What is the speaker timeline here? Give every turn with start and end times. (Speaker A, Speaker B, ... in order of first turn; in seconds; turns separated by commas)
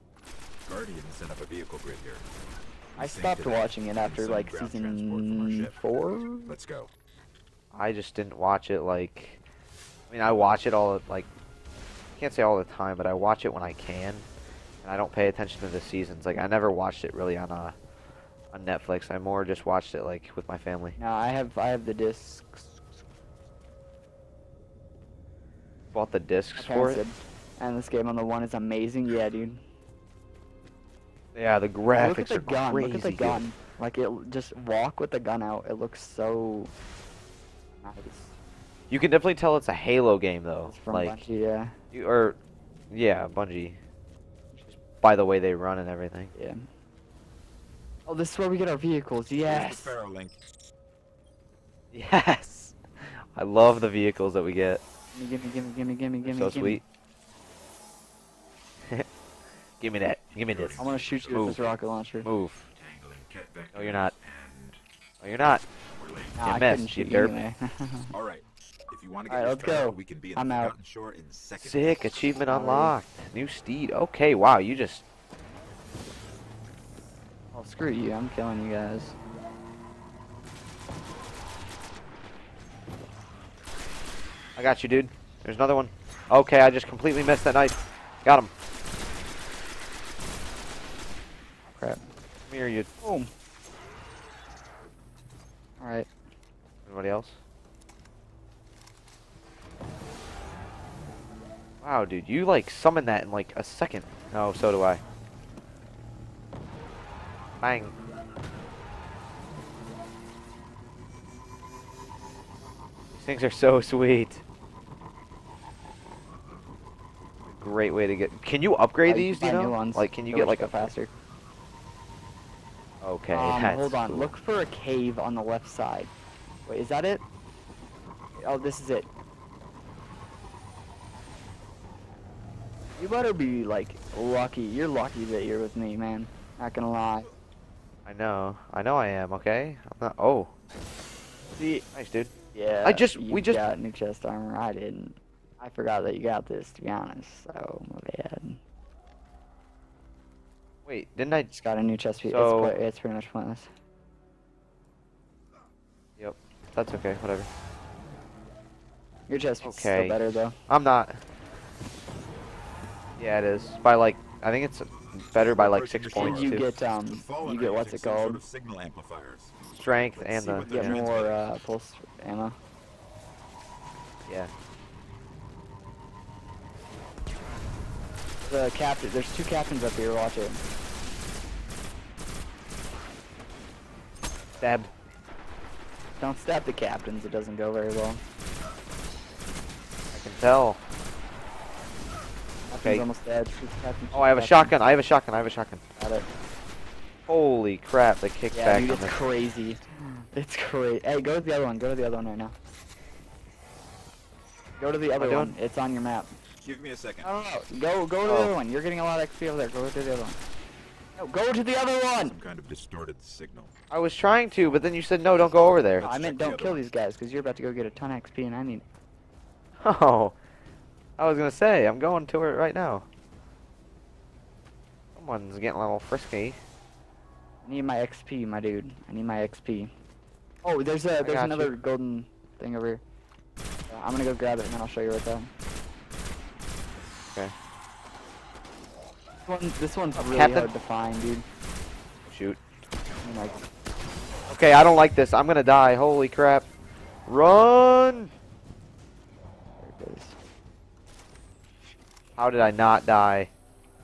Speaker A: 0.7-2.2, Speaker A: 3.0-5.8, Speaker B: 3.0-6.5, Speaker A: 6.4-6.9, Speaker C: 7.7-9.4, Speaker C: 10.1-11.3, Speaker C: 12.2-14.3, Speaker C: 14.8-17.8, Speaker C: 18.5-21.0, Speaker B: 21.0-22.8, Speaker C: 25.9-27.0, Speaker B: 26.5-29.6, Speaker C: 31.3-33.4, Speaker B: 31.9-36.7, Speaker B: 37.8-38.4, Speaker C: 38.9-41.2, Speaker B: 40.6-41.8, Speaker C: 41.9-42.4, Speaker C: 42.9-43.8, Speaker C: 44.7-46.3, Speaker B: 46.3-46.7, Speaker B: 48.0-50.0, Speaker A: 49.4-50.4, Speaker C: 51.9-54.8, Speaker B: 55.1-56.8, Speaker C: 56.2-56.8, Speaker C: 59.8-61.6, Speaker A: 60.4-61.8, Speaker B: 60.8-62.3, Speaker C: 62.2-62.6, Speaker A: 62.7-64.8, Speaker C: 63.7-64.1, Speaker C: 65.2-65.6, Speaker A: 66.0-66.5, Speaker B: 66.3-68.1, Speaker C: 66.4-67.3, Speaker A: 68.1-72.1, Speaker B: 69.3-70.7, Speaker C: 71.6-75.0, Speaker B: 72.5-73.0, Speaker B: 77.5-79.2, Speaker C: 84.5-88.5, Speaker B: 91.7-92.0, Speaker C: 92.5-92.9, Speaker B: 93.0-93.3, Speaker B: 95.8-96.1, Speaker C: 96.8-97.4, Speaker C: 101.8-105.0, Speaker C: 107.6-107.9, Speaker C: 113.1-114.4, Speaker C: 117.5-120.9, Speaker B: 119.0-121.1, Speaker C: 123.0-124.3, Speaker B: 123.3-126.1, Speaker B: 126.7-127.2, Speaker B: 128.4-129.1, Speaker B: 133.0-137.3, Speaker C: 138.1-140.5, Speaker B: 141.6-141.8, Speaker C: 141.9-142.3, Speaker B: 142.5-148.6, Speaker C: 142.8-143.6, Speaker C: 150.8-151.5, Speaker B: 151.5-153.7, Speaker C: 152.2-152.8, Speaker C: 156.2-157.5, Speaker B: 159.3-160.6, Speaker C: 159.6-160.2, Speaker C: 160.7-161.2, Speaker C: 163.2-166.6, Speaker A: 165.1-171.5, Speaker B: 166.1-168.4, Speaker C: 169.7-171.0, Speaker B: 170.7-172.6, Speaker B: 178.4-180.6, Speaker C: 184.6-184.9, Speaker B: 186.2-188.2, Speaker C: 190.1-190.8, Speaker B: 192.7-194.8, Speaker C: 192.8-193.1, Speaker C: 194.1-195.8, Speaker B: 196.0-196.2, Speaker C: 197.3-199.2, Speaker B: 198.5-202.5, Speaker B: 204.8-206.3, Speaker C: 205.2-205.5, Speaker A: 206.6-207.3, Speaker B: 207.2-210.4, Speaker C: 208.2-208.5, Speaker B: 211.2-212.4, Speaker A: 212.2-213.7, Speaker C: 213.9-216.1, Speaker A: 215.3-216.8, Speaker B: 216.0-218.8, Speaker C: 219.8-220.3, Speaker C: 221.2-223.1, Speaker C: 225.2-226.6, Speaker B: 227.6-229.9, Speaker B: 230.6-233.0, Speaker C: 231.2-231.7, Speaker B: 233.9-235.5, Speaker B: 239.4-241.4, Speaker C: 240.1-240.7, Speaker C: 242.2-242.6, Speaker B: 243.2-243.6, Speaker C: 244.5-246.7, Speaker C: 247.3-248.3, Speaker B: 249.8-250.4, Speaker C: 252.4-253.5